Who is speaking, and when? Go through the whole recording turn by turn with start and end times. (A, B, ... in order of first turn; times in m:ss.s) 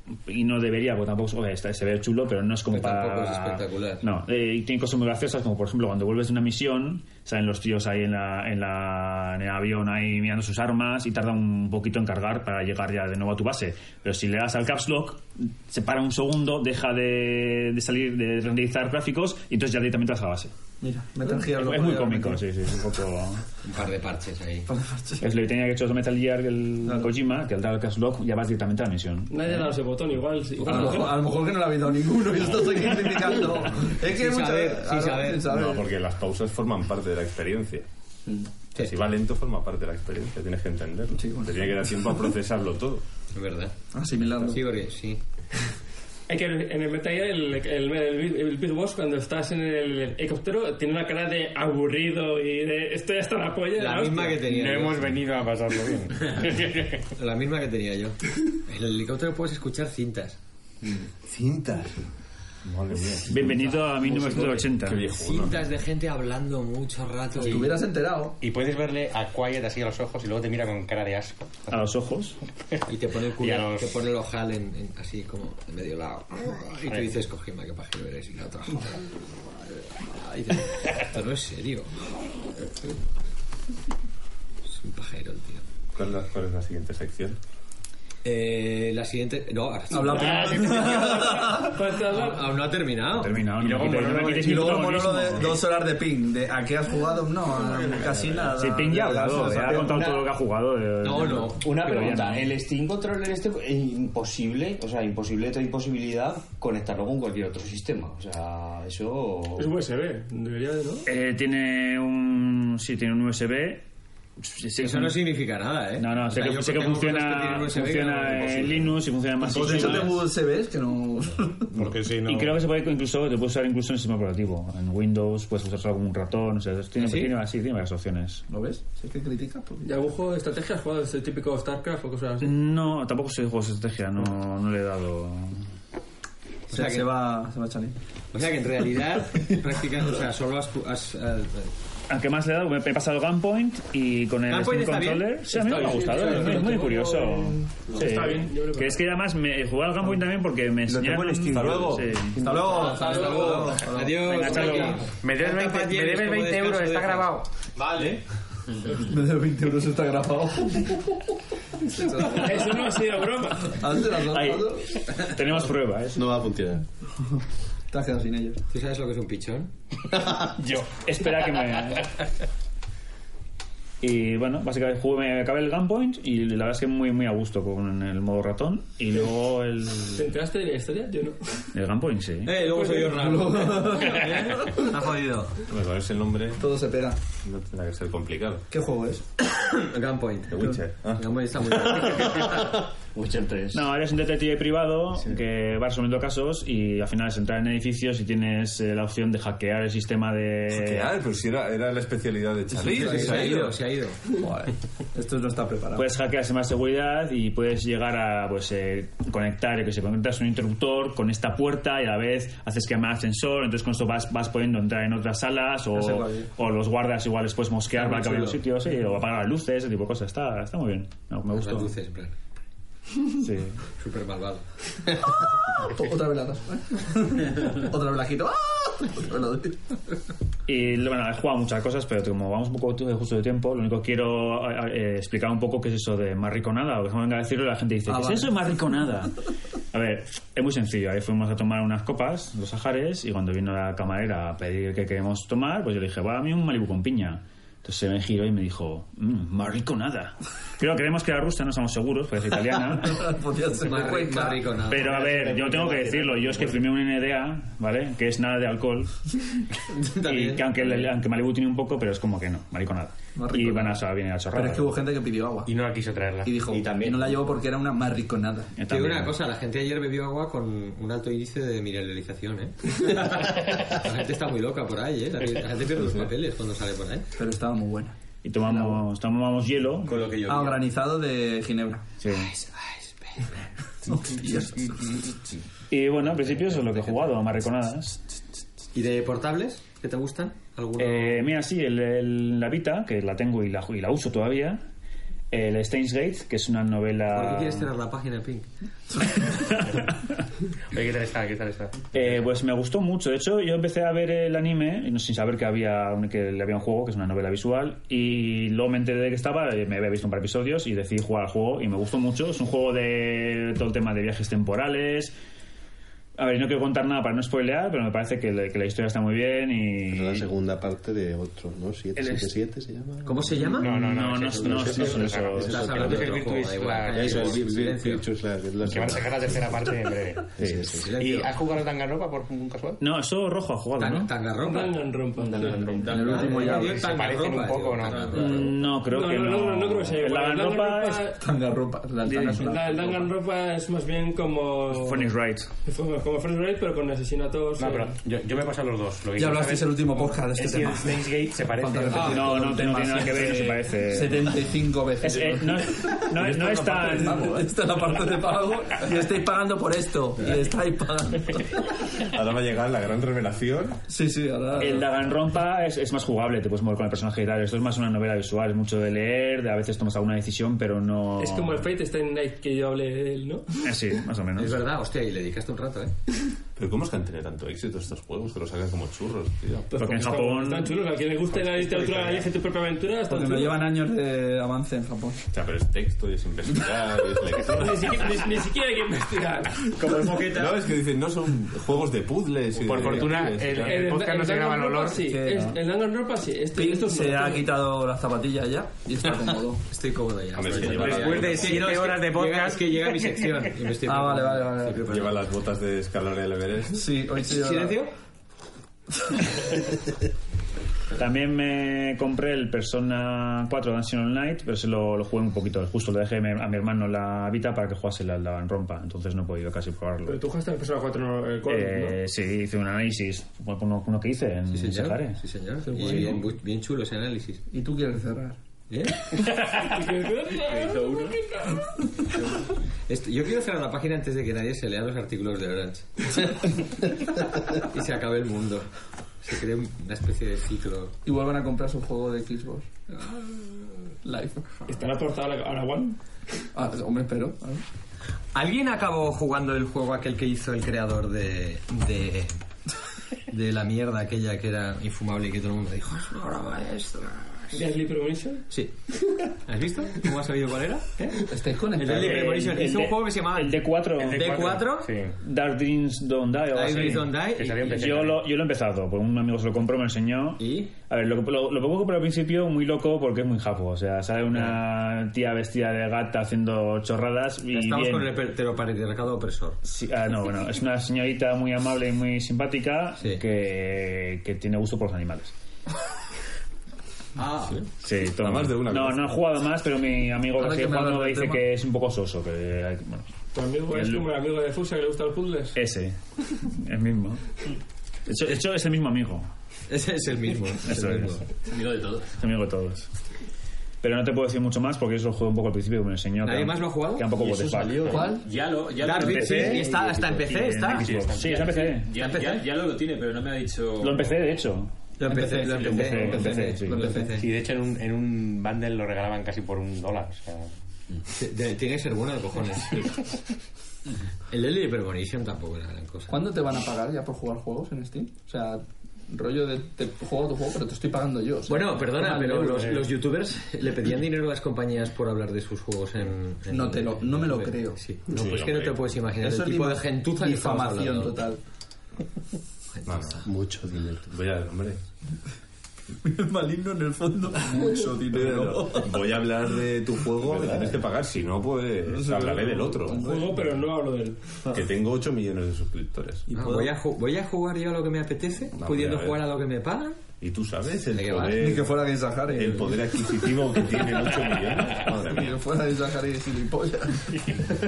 0:00.3-0:20.5 A
0:02.7-0:04.0 B
0:20.8-0:22.4 C
0:21.3-0:23.4 A
0:23.6-0:24.7 B
0:24.7-0:25.3 C
0:25.2-0:29.7 A
0:26.8-0:27.1 C
0:29.3-0:31.2 D
0:30.6-0:35.9 C
0:34.0-0:35.5 B
0:35.4-0:37.9 E
0:38.8-0:43.0 E
0:41.1-0:42.1 C
0:43.3-0:43.8 B
0:43.9-0:44.7 C
0:44.4-0:45.2 B
0:46.3-0:54.4 D
0:53.8-0:55.1 B
0:54.4-0:57.0 F
0:57.2-1:00.4 B
1:01.3-1:02.0 E
1:02.7-1:05.6 E
1:03.3-1:05.1 A
1:05.0-1:07.7 B
1:07.4-1:08.4 C
1:08.4-1:11.8 F
1:11.7-1:12.4 A
1:12.9-1:19.1 B
1:13.3-1:14.0 F
1:20.0-1:22.0 B
1:24.7-1:25.6 B
1:25.9-1:27.4 E
1:28.2-1:34.1 B
1:29.9-1:31.8 C
1:30.6-1:32.5 D
1:33.1-1:35.6 A
1:33.6-1:35.2 F
1:34.2-1:40.1 C
1:38.5-1:42.6 A
1:39.6-1:40.3 G
1:41.0-1:49.7 G
1:41.0-1:41.5 B
1:49.6-1:51.1 D
1:51.1-1:53.8 A
1:54.4-1:55.2 A
1:54.8-1:59.0 B
1:56.0-2:00.2 A
1:59.4-2:01.7 C
2:01.8-2:02.5 F
2:02.2-2:08.4 A
2:07.0-2:07.3 B
2:08.5-2:09.9 C
2:09.8-2:12.5 D
2:12.4-2:15.7 A
2:16.7-2:17.2 B
2:16.7-2:18.0 C
2:18.3-2:21.7 B
2:22.1-2:32.7 A
2:24.5-2:25.4 B
2:25.5-2:29.0 D
2:31.0-2:31.8 G
2:31.5-2:32.1 E
2:32.4-2:34.3 C
2:32.4-2:33.9 G
2:32.5-2:37.3 B
2:32.7-2:33.5 F
2:32.8-2:33.7 H
2:34.2-2:35.0 A
2:34.4-2:35.0 D
2:34.5-2:37.5 F
2:37.8-2:38.2 H
2:39.0-2:41.2 C
2:41.8-2:42.8 C
2:42.3-2:44.0 D
2:43.7-2:45.0 C
2:44.2-2:46.3 A
2:46.1-2:46.8 I
2:47.9-2:48.6 C
2:48.7-2:49.7 B
2:50.8-2:52.2 A
2:54.0-3:00.3 A
3:00.2-3:01.7 D
3:01.7-3:02.6 A
3:02.4-3:05.5 B
3:02.6-3:03.2 D
3:03.1-3:04.9 C
3:05.6-3:06.6 E
3:06.6-3:07.2 C
3:07.4-3:08.6 E
3:08.7-3:09.2 C
3:09.4-3:12.6 B
3:10.5-3:12.5 E
3:13.2-3:13.9 G
3:13.7-3:21.1 A
3:20.7-3:23.8 E
3:22.8-3:23.7 C
3:22.9-3:24.2 B
3:24.3-3:26.1 C
3:26.0-3:41.9 A
3:35.9-3:36.5 C
3:41.5-3:42.4 B
3:43.4-3:43.8 A
3:44.0-3:44.7 B
3:45.7-3:50.0 C
3:50.7-3:59.4 A
3:58.1-3:58.7 C
3:59.9-4:13.4 A
4:13.0-4:14.7 C
4:13.8-4:16.0 B
4:14.8-4:19.4 A
4:19.9-4:21.1 B
4:20.2-4:25.0 A
4:23.4-4:25.7 C
4:25.7-4:26.6 F
4:26.4-4:28.7 C
4:26.7-4:27.4 G
4:28.8-4:29.4 A
4:28.9-4:37.3 B
4:37.4-4:39.0 C
4:38.4-4:40.3 A
4:40.1-4:40.8 B
4:40.4-4:42.0 C
4:42.2-4:42.5 A
4:42.5-4:42.8 B
4:44.0-4:45.1 C
4:45.9-4:48.2 A
4:46.5-4:47.3 B
4:48.9-4:51.5 B
4:51.0-4:54.8 A
4:55.5-4:57.9 A
4:57.3-4:58.7 B
5:00.9-5:02.1 F
5:02.1-5:15.3 A
5:16.4-5:20.5 A
5:20.1-5:26.3 I
5:23.2-5:24.0 B
5:23.8-5:27.7 F
5:24.0-5:25.8 A
5:25.5-5:28.2 B
5:27.1-5:29.6 I
5:28.8-5:30.6 F
5:30.6-5:31.1 I
5:30.9-5:31.5 B
5:31.1-5:33.0 F
5:33.0-5:34.3 A
5:34.0-5:35.0 B
5:34.6-5:35.8 D
5:35.5-5:38.8 F
5:35.8-5:36.5 H
5:36.0-5:37.1 C
5:36.1-5:38.7 B
5:38.3-5:41.3 A
5:39.0-5:41.4 D
5:41.4-5:43.3 C
5:42.3-5:42.7 A
5:42.5-5:45.3 D
5:44.9-5:45.7 A
5:45.8-5:48.2 D
5:47.8-5:53.3 F
5:49.4-6:01.9 C
5:52.2-5:54.6 A
5:55.2-5:57.6 A
6:02.2-6:04.0 E
6:04.1-6:05.1 C
6:04.8-6:11.9 A
6:11.4-6:13.8 D
6:13.8-6:14.8 A
6:14.6-6:16.1 B
6:16.8-6:19.9 E
6:19.9-6:23.9 D
6:19.9-6:21.0 A
6:23.3-6:25.4 C
6:25.5-6:28.4 E
6:27.7-6:30.3 D
6:30.2-6:30.6 F
6:30.5-6:34.0 E
6:32.8-6:35.2 F
6:33.7-6:37.8 D
6:35.2-6:35.8 C
6:36.8-6:39.8 C
6:39.9-6:45.4 B
6:40.5-6:42.0 E
6:40.9-6:43.7 F
6:44.0-6:45.1 C
6:45.0-6:47.1 E
6:46.9-6:48.0 C
6:47.4-6:48.1 B
6:51.2-7:00.4 A
7:00.3-7:02.2 D
7:01.7-7:05.4 A
7:04.7-7:07.6 B
7:05.9-7:06.4 C
7:07.7-7:08.6 C
7:08.9-7:09.4 B
7:09.4-7:12.0 D
7:10.6-7:11.4 H
7:13.1-7:16.6 B
7:17.7-7:18.9 B
7:19.4-7:21.2 B
7:21.2-7:22.9 C
7:23.1-7:23.6 B
7:24.2-7:24.7 C
7:24.9-7:26.2 D
7:26.8-7:27.8 C
7:28.5-7:32.6 B
7:33.5-7:37.8 B
7:37.7-7:38.6 D
7:39.6-7:45.1 B
7:41.5-7:42.6 C
7:42.0-7:44.7 A
7:44.2-7:45.4 F
7:45.4-7:58.3 A
7:46.7-7:48.0 B
7:47.5-7:48.4 F
7:50.6-7:50.9 B
7:54.5-7:54.8 B
7:57.7-7:59.8 B
7:59.8-8:05.5 A
8:03.2-8:03.4 B
8:08.0-8:13.3 A
8:08.3-8:09.4 E
8:10.6-8:11.6 C
8:13.5-8:15.8 D
8:13.9-8:14.3 A
8:15.8-8:17.4 A
8:18.3-8:19.5 A
8:19.9-8:21.4 B
8:20.8-8:21.5 A
8:21.6-8:22.4 H
8:22.4-8:23.1 A
8:24.0-8:28.4 A
8:26.4-8:27.3 B
8:27.4-8:34.4 H
8:28.1-8:28.5 C
8:29.0-8:31.1 B
8:29.2-8:29.9 A
8:30.5-8:32.1 A
8:31.4-8:31.8 F
8:32.2-8:32.6 B
8:34.0-8:34.9 A
8:35.2-8:37.3 C
8:35.2-8:37.5 B
8:35.6-8:36.5 H
8:35.8-8:37.2 A
8:37.3-8:40.7 F
8:41.3-8:43.2 B
8:44.5-8:46.4 B
8:46.3-8:53.0 C
8:51.7-9:01.4 B
8:56.7-8:58.0 C
8:58.3-8:59.1 E
8:59.4-9:01.6 C
9:02.9-9:03.5 B
9:03.1-9:03.5 E
9:03.4-9:04.3 I
9:04.2-9:05.0 E
9:06.2-9:09.3 C
9:08.3-9:13.3 E
9:10.4-9:10.9 I
9:12.0-9:13.8 C
9:13.2-9:14.6 D
9:14.7-9:16.5 E
9:16.5-9:16.9 C
9:16.5-9:20.2 B
9:18.8-9:19.4 E
9:20.4-9:25.6 E
9:21.1-9:21.6 B
9:21.5-9:23.4 C
9:25.2-9:27.6 C